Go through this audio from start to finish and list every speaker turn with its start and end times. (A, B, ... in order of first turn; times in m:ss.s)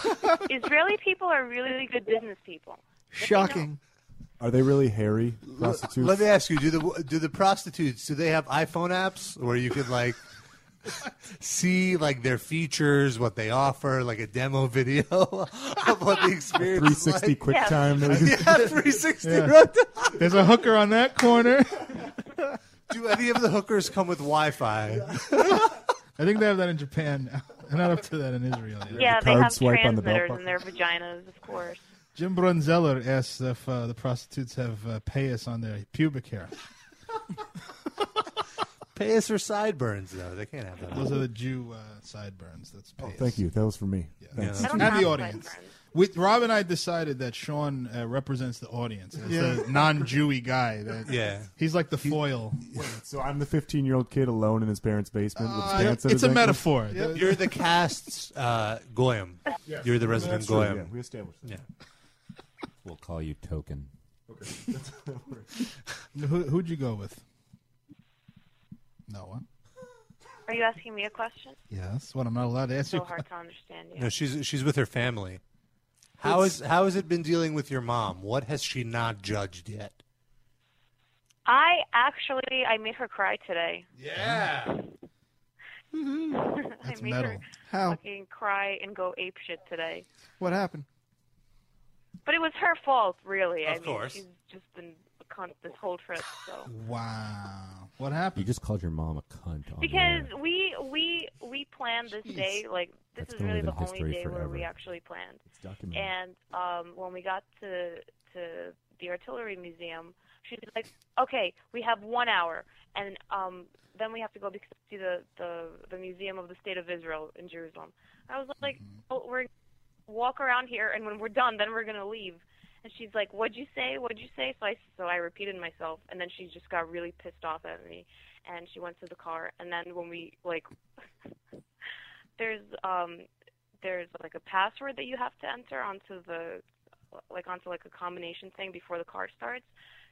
0:00.4-0:03.7 A
0:03.1-0:03.8 B
0:04.4-0:06.3 C
0:05.6-0:10.2 D
0:11.4-0:20.2 D
0:16.6-0:18.7 C
0:17.5-0:17.9 A
0:19.2-0:21.9 E
0:22.9-0:25.4 D
0:26.2-0:29.1 E
0:28.9-0:30.6 C
0:29.0-0:31.8 A
0:32.2-0:36.6 E
0:39.0-0:41.2 D
0:40.9-0:43.4 E
0:43.0-0:45.1 C
0:44.2-0:52.6 E
0:44.4-0:44.8 D
0:44.6-0:45.7 A
0:49.2-0:50.1 B
0:51.1-0:51.5 D
0:52.7-0:56.7 C
0:55.4-0:57.5 E
0:56.9-0:57.3 B
0:57.1-1:00.9 D
0:59.7-1:01.6 C
1:02.8-1:03.9 F
1:04.3-1:05.5 C
1:06.2-1:07.2 E
1:09.1-1:09.4 E
1:10.5-1:11.6 A
1:11.7-1:13.2 E
1:12.9-1:14.1 A
1:14.0-1:15.4 D
1:16.2-1:20.0 D
1:21.5-1:23.9 A
1:24.0-1:24.7 D
1:26.3-1:30.1 A
1:26.8-1:27.5 E
1:27.6-1:28.0 B
1:30.4-1:30.9 B
1:32.3-1:36.7 A
1:33.6-1:34.2 D
1:36.7-1:38.5 E
1:38.4-1:40.3 F
1:39.8-1:59.5 A
1:43.2-1:44.8 F
1:45.5-1:46.1 C
2:00.1-2:10.7 A
2:12.4-2:13.3 A
2:13.8-2:16.6 A
2:17.1-2:19.7 A